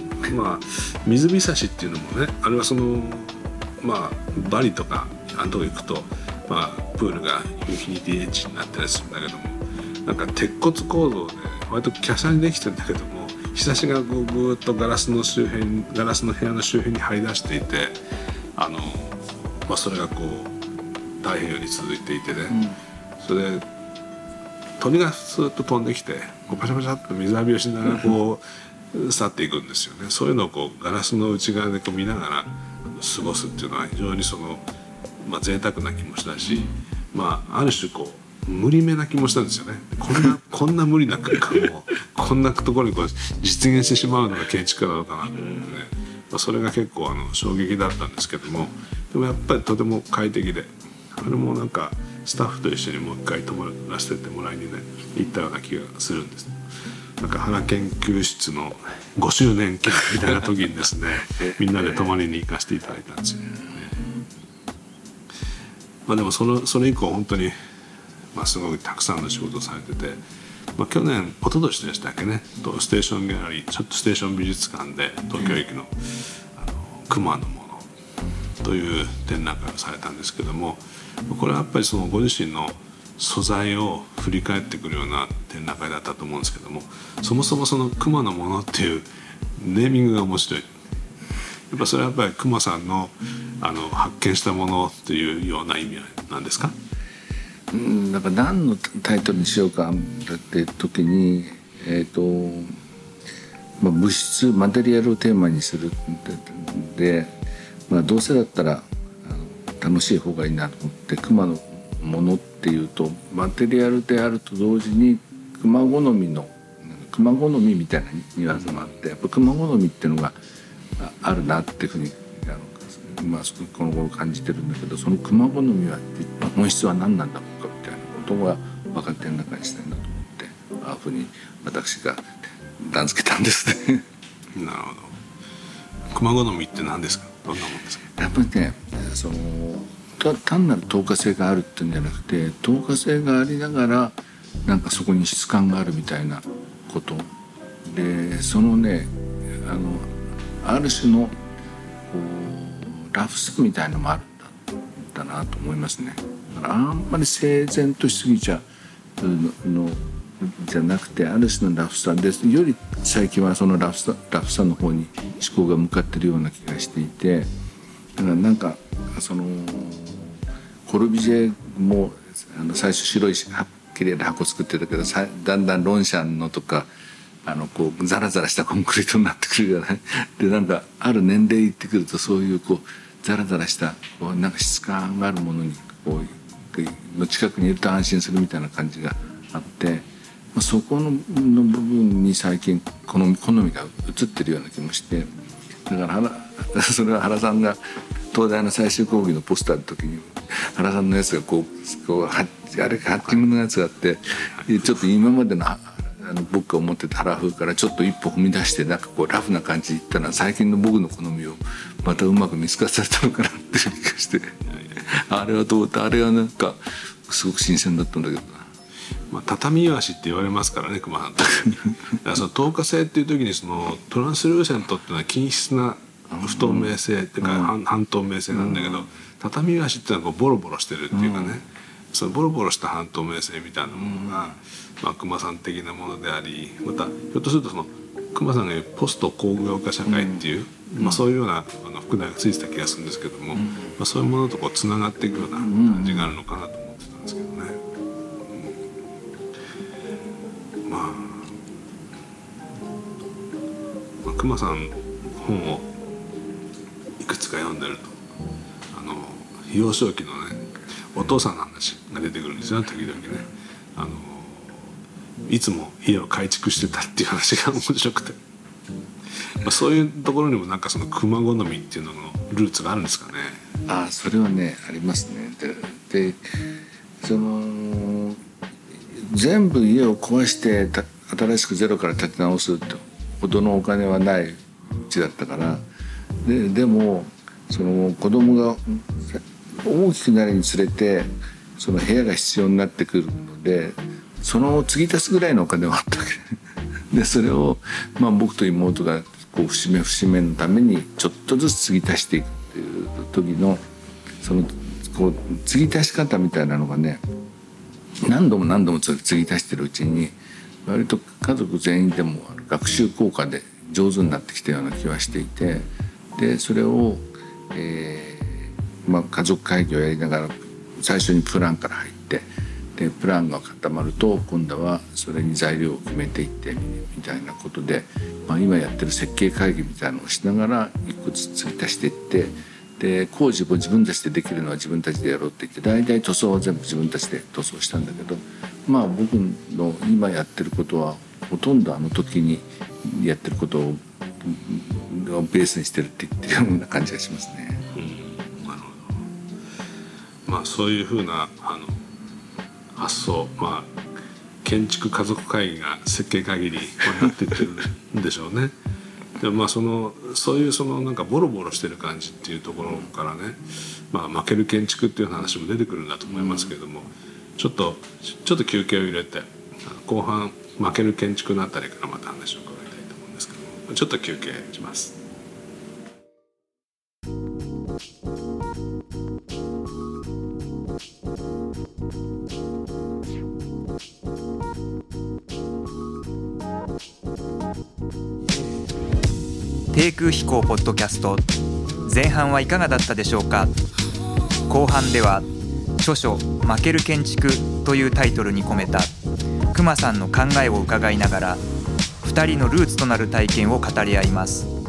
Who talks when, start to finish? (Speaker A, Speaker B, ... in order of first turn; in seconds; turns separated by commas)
Speaker A: 0.2-18.0, Speaker A: 18.6-20.5, Speaker A: 21.2-22.6, Speaker B: 22.5-22.8, Speaker A: 23.2-23.7, Speaker A: 24.8-28.4, Speaker A: 28.9-34.6, Speaker A: 35.2-56.6, Speaker A: 57.2-64.0, Speaker B: 61.4-62.1, Speaker A: 66.1-67.5, Speaker A: 68.3-70.2, Speaker A: 70.8-77.9, Speaker A: 78.6-90.7, Speaker A: 91.7-96.8, Speaker B: 97.7-102.8, Speaker B: 103.8-107.3, Speaker B: 107.9-120.3, Speaker B: 121.0-134.1, Speaker A: 134.6-135.2, Speaker A: 136.1-138.1, Speaker B: 138.2-147.3, Speaker B: 147.8-151.4, Speaker B: 152.1-158.7, Speaker B: 159.2-167.5, Speaker B: 168.2-176.9, Speaker B: 177.5-197.8, Speaker B: 198.3-218.7, Speaker A: 204.5-205.0, Speaker A: 219.3-247.8, Speaker B: 221.6-221.9, Speaker B: 226.3-227.7, Speaker B: 228.5-229.1, Speaker B: 231.1-231.6, Speaker B: 234.0-234.5, Speaker B: 240.1-240.4, Speaker B: 245.6-246.3, Speaker A: 248.5-248.8, Speaker A: 250.8-251.6, Speaker A: 254.2-255.9, Speaker A: 257.2-258.2, Speaker A: 258.9-264.9, Speaker A: 265.5-268.4, Speaker A: 269.4-273.6, Speaker B: 273.9-276.7, Speaker B: 277.2-278.4, Speaker B: 279.1-285.9, Speaker B: 286.4-296.6, Speaker B: 297.1-303.8, Speaker B: 304.4-307.2, Speaker B: 308.2-347.8, Speaker A: 347.9-349.3, Speaker A: 350.5-352.1, Speaker A: 352.9-353.9, Speaker A: 354.6-358.7, Speaker A: 359.4-375.2, Speaker B: 366.3-366.7, Speaker C: 389.9-391.5, Speaker C: 392.0-393.7, Speaker C: 394.7-395.5, Speaker C: 396.0-399.1, Speaker C: 399.7-401.6, Speaker C: 402.2-404.7